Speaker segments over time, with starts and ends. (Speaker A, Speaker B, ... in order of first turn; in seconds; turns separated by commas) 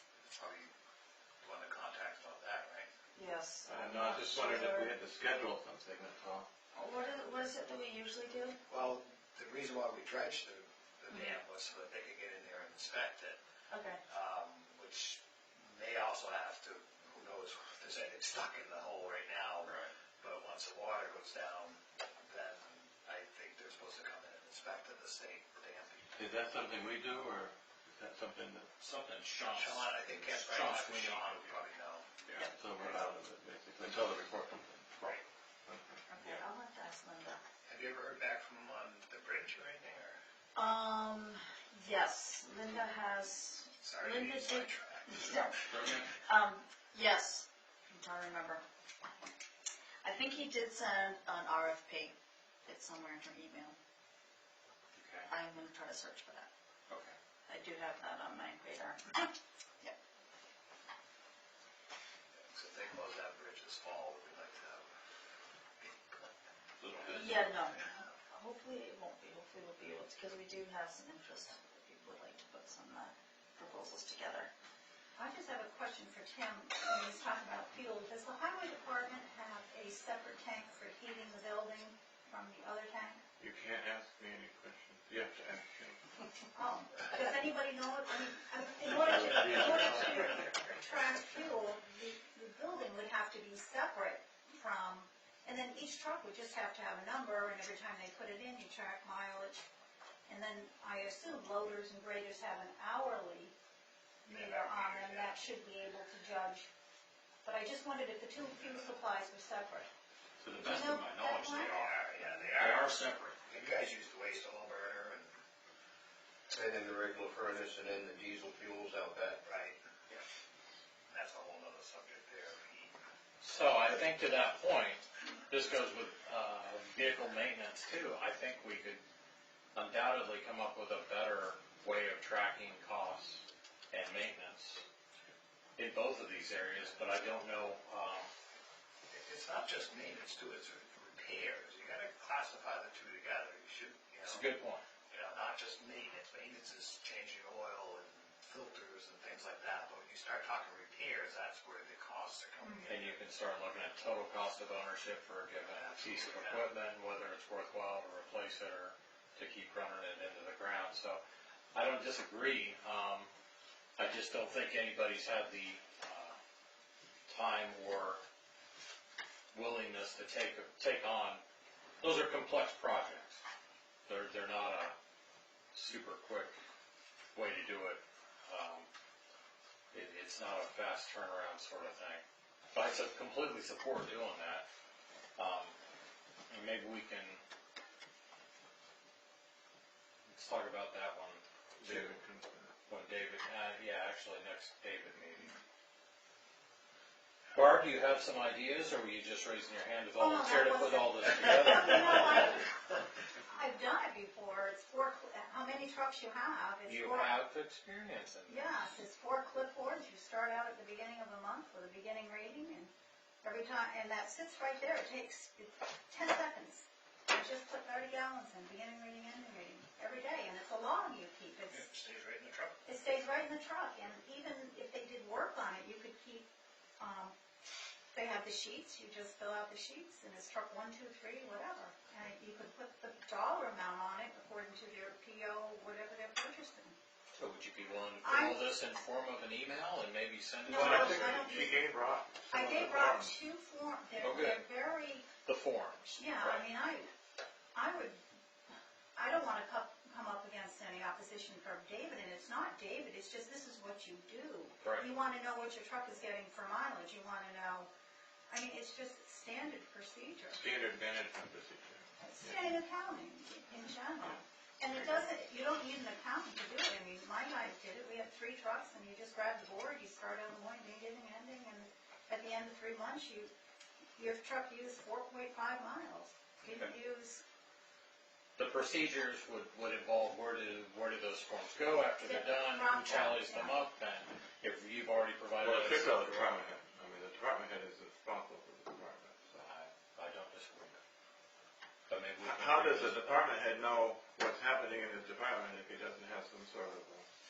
Speaker A: 0.3-0.7, Speaker A: 1.4-2.9, Speaker B: 3.1-4.9, Speaker C: 3.7-6.5, Speaker B: 6.7-8.6, Speaker A: 8.7-13.4, Speaker B: 11.1-11.4, Speaker B: 13.7-14.0, Speaker A: 14.1-15.2, Speaker A: 15.8-26.0, Speaker C: 26.1-28.7, Speaker D: 28.8-31.6, Speaker A: 29.5-32.1, Speaker C: 32.3-35.0, Speaker C: 35.7-36.4, Speaker B: 36.1-37.4, Speaker A: 37.7-40.2, Speaker B: 40.6-48.6, Speaker A: 43.8-45.1, Speaker B: 50.0-52.1, Speaker B: 52.7-53.8, Speaker D: 55.0-55.3, Speaker B: 55.3-56.5, Speaker D: 56.9-57.2, Speaker B: 57.5-60.0, Speaker A: 62.5-64.8, Speaker B: 67.1-74.5, Speaker E: 75.2-83.2, Speaker C: 83.4-86.0, Speaker E: 86.5-99.6, Speaker C: 89.0-90.3, Speaker E: 100.3-103.5, Speaker E: 104.3-106.7, Speaker A: 104.3-105.3, Speaker E: 107.4-109.9, Speaker D: 110.4-113.4, Speaker E: 110.6-112.4, Speaker A: 111.8-115.3, Speaker F: 116.5-119.4, Speaker A: 119.5-120.2, Speaker A: 121.1-122.9, Speaker D: 123.4-129.0, Speaker D: 129.8-134.8, Speaker D: 135.8-138.3, Speaker A: 139.1-144.4, Speaker D: 144.2-144.8, Speaker A: 145.1-153.2, Speaker E: 152.6-153.0, Speaker D: 152.9-161.2, Speaker A: 155.7-156.7, Speaker D: 161.7-163.3, Speaker D: 164.0-166.4, Speaker D: 167.3-168.2, Speaker D: 169.5-171.4, Speaker D: 172.0-173.4, Speaker D: 174.1-175.0, Speaker D: 175.7-176.6, Speaker D: 177.3-178.9, Speaker D: 179.9-184.7, Speaker D: 185.4-185.8, Speaker D: 186.5-187.4, Speaker D: 190.3-192.1, Speaker C: 191.8-192.7, Speaker D: 192.9-195.5, Speaker D: 197.6-202.4, Speaker E: 200.2-202.7, Speaker E: 203.5-207.4, Speaker D: 206.9-208.9, Speaker E: 208.5-212.9, Speaker E: 213.4-221.9, Speaker A: 221.8-222.8, Speaker E: 222.8-226.5, Speaker E: 227.0-227.3, Speaker E: 228.1-237.0, Speaker D: 237.3-241.7, Speaker E: 238.2-238.6, Speaker E: 240.7-241.8, Speaker C: 240.7-243.3, Speaker E: 242.5-245.3, Speaker D: 244.2-244.7, Speaker D: 245.4-246.6, Speaker E: 246.2-247.1, Speaker E: 247.8-248.2, Speaker E: 249.2-257.9, Speaker D: 254.8-255.1, Speaker E: 258.5-260.6, Speaker C: 260.5-262.7, Speaker E: 262.2-273.5, Speaker E: 274.2-277.4, Speaker D: 276.6-276.9, Speaker D: 278.6-286.6, Speaker E: 282.2-283.8, Speaker C: 285.6-289.7, Speaker D: 289.6-291.0, Speaker D: 292.1-293.4, Speaker C: 292.4-297.3